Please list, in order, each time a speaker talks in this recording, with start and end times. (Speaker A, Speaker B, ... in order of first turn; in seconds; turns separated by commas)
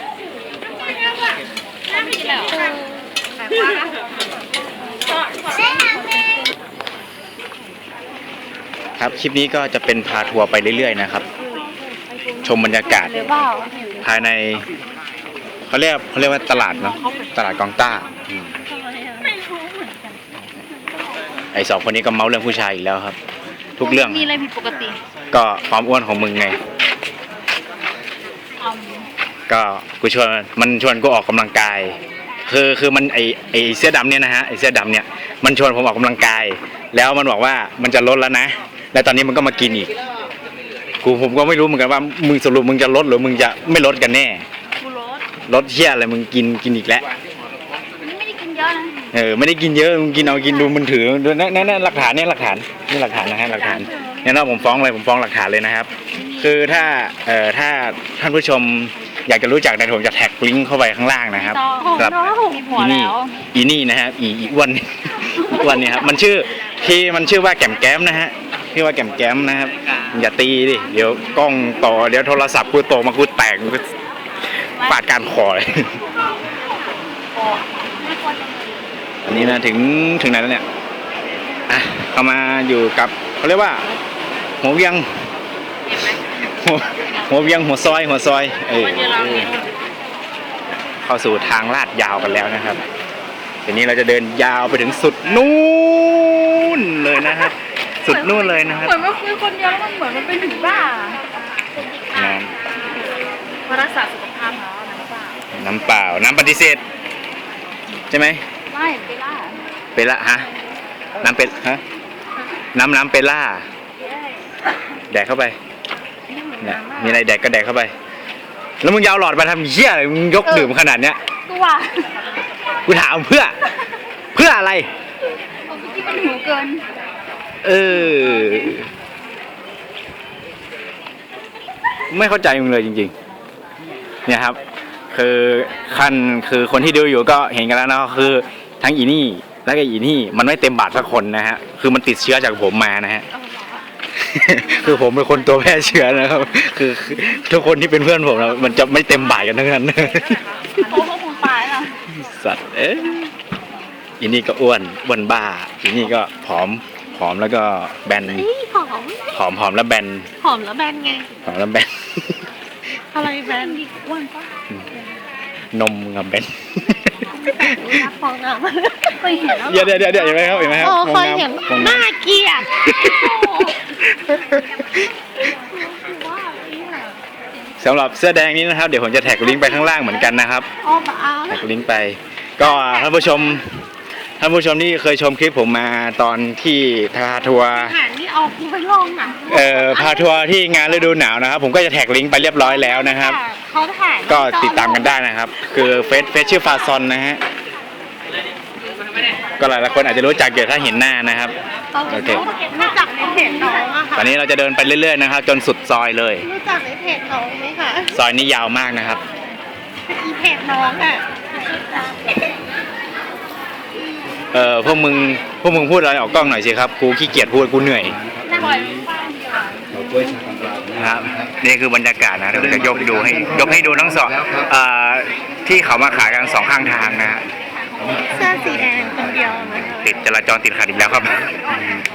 Speaker A: 1.9-2.6, Speaker B: 2.3-3.7, Speaker C: 9.0-11.2, Speaker C: 12.4-13.2, Speaker B: 12.8-14.1, Speaker C: 14.0-14.7, Speaker C: 15.7-18.6, Speaker A: 16.4-17.5, Speaker B: 18.7-19.2, Speaker A: 19.2-20.3, Speaker C: 21.5-23.2, Speaker C: 23.8-24.3, Speaker A: 23.8-25.0, Speaker C: 25.3-26.6, Speaker A: 28.6-29.1, Speaker C: 29.5-39.9, Speaker C: 41.0-44.4, Speaker A: 44.8-45.2, Speaker C: 45.5-47.1, Speaker A: 48.0-49.1, Speaker C: 49.1-62.2, Speaker A: 50.4-50.8, Speaker A: 53.5-54.1, Speaker A: 56.1-56.9, Speaker A: 61.4-63.4, Speaker C: 62.7-73.8, Speaker C: 74.8-76.0, Speaker A: 77.4-78.9, Speaker C: 79.3-80.6, Speaker C: 81.7-83.9, Speaker C: 84.6-85.1, Speaker C: 86.5-89.6, Speaker A: 89.0-89.6, Speaker C: 91.0-92.8, Speaker C: 93.7-99.0, Speaker A: 98.0-101.2, Speaker A: 101.8-102.3, Speaker C: 102.1-102.5, Speaker A: 103.7-105.4, Speaker C: 105.5-106.8, Speaker C: 108.1-108.4, Speaker A: 108.7-109.6, Speaker C: 110.0-110.5, Speaker C: 111.2-111.8, Speaker C: 112.7-113.7, Speaker A: 114.0-114.4, Speaker C: 115.1-115.6, Speaker B: 116.3-117.2, Speaker C: 116.6-117.9, Speaker C: 118.8-121.2, Speaker A: 120.4-120.7, Speaker A: 121.5-122.1, Speaker C: 122.9-123.6, Speaker C: 124.3-124.9, Speaker A: 125.7-126.9, Speaker C: 127.6-128.9, Speaker A: 128.1-128.7, Speaker C: 132.1-133.1, Speaker C: 134.3-134.6, Speaker C: 135.1-143.3, Speaker C: 144.2-150.4, Speaker A: 150.8-152.0, Speaker C: 152.1-153.3, Speaker C: 154.2-158.5, Speaker B: 158.3-159.4, Speaker C: 159.3-160.3, Speaker B: 160.4-161.3, Speaker C: 161.5-162.4, Speaker B: 163.1-163.8, Speaker A: 163.4-164.5, Speaker C: 165.7-167.8, Speaker B: 167.4-169.3, Speaker A: 169.2-170.9, Speaker C: 169.6-172.1, Speaker B: 170.8-173.1, Speaker C: 172.9-175.0, Speaker A: 173.0-173.8, Speaker B: 175.5-177.2, Speaker C: 177.8-180.7, Speaker B: 180.8-181.7, Speaker C: 181.5-183.7, Speaker C: 184.4-188.0, Speaker B: 187.4-190.5, Speaker C: 189.5-193.4, Speaker B: 192.7-195.2, Speaker C: 194.3-197.4, Speaker C: 199.6-201.6, Speaker B: 201.9-204.3, Speaker C: 202.1-202.5, Speaker A: 203.3-203.7, Speaker C: 204.2-206.5, Speaker B: 206.4-208.2, Speaker C: 208.1-209.2, Speaker B: 210.1-212.6, Speaker B: 213.9-214.5, Speaker C: 214.5-218.2, Speaker A: 218.5-219.9, Speaker C: 221.0-227.4, Speaker B: 228.2-230.2, Speaker C: 229.7-231.5